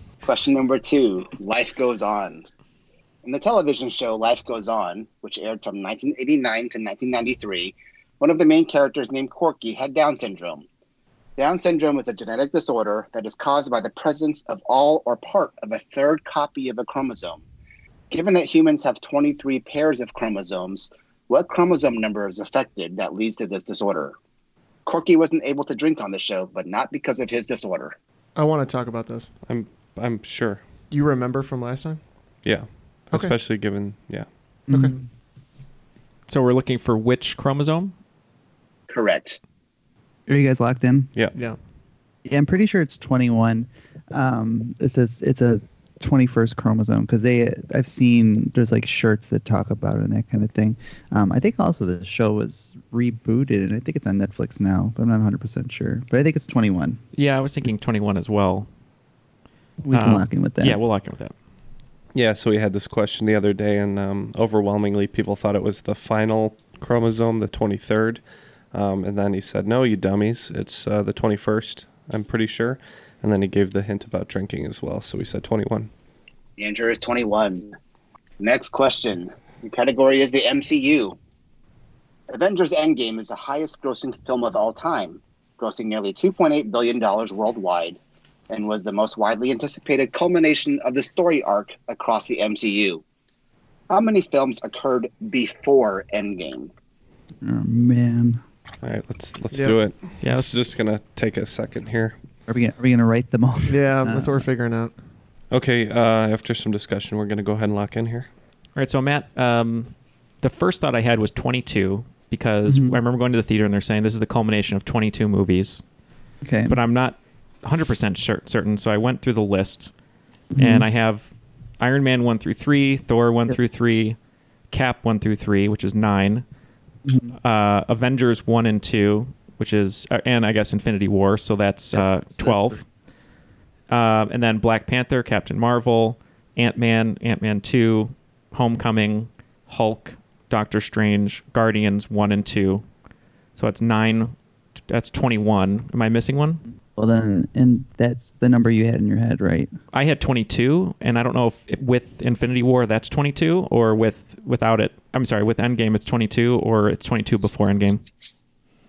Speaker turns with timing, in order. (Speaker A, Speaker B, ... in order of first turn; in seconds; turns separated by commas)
Speaker A: 0.2-2.5, Speaker A: 3.2-10.6, Speaker A: 11.4-17.4, Speaker A: 18.1-24.1, Speaker A: 24.9-27.9, Speaker B: 28.4-29.3, Speaker C: 29.5-30.6, Speaker B: 30.9-32.0, Speaker C: 32.4-34.2, Speaker B: 33.1-33.4, Speaker D: 34.7-35.0, Speaker E: 36.3-37.9, Speaker A: 38.9-39.4, Speaker D: 40.3-41.1, Speaker D: 42.2-57.0, Speaker E: 57.1-58.7, Speaker D: 59.8-60.8, Speaker E: 59.9-61.3, Speaker C: 62.1-68.2, Speaker C: 68.7-75.9, Speaker A: 76.6-77.8, Speaker A: 78.4-81.2, Speaker A: 82.3-93.0, Speaker A: 93.9-96.7, Speaker D: 97.4-98.4, Speaker C: 98.8-102.2, Speaker B: 99.5-99.8, Speaker E: 100.2-100.6, Speaker D: 102.5-104.4, Speaker B: 103.7-104.9, Speaker C: 105.5-108.3, Speaker E: 108.8-115.8, Speaker D: 112.7-113.0, Speaker D: 116.4-116.8, Speaker E: 116.7-119.9, Speaker D: 120.5-120.8, Speaker E: 120.6-124.2, Speaker E: 124.7-126.4, Speaker D: 127.0-127.3, Speaker E: 127.4-132.8, Speaker E: 133.9-142.8, Speaker E: 143.5-144.3, Speaker E: 144.9-146.6, Speaker D: 146.9-149.7, Speaker E: 149.9-158.0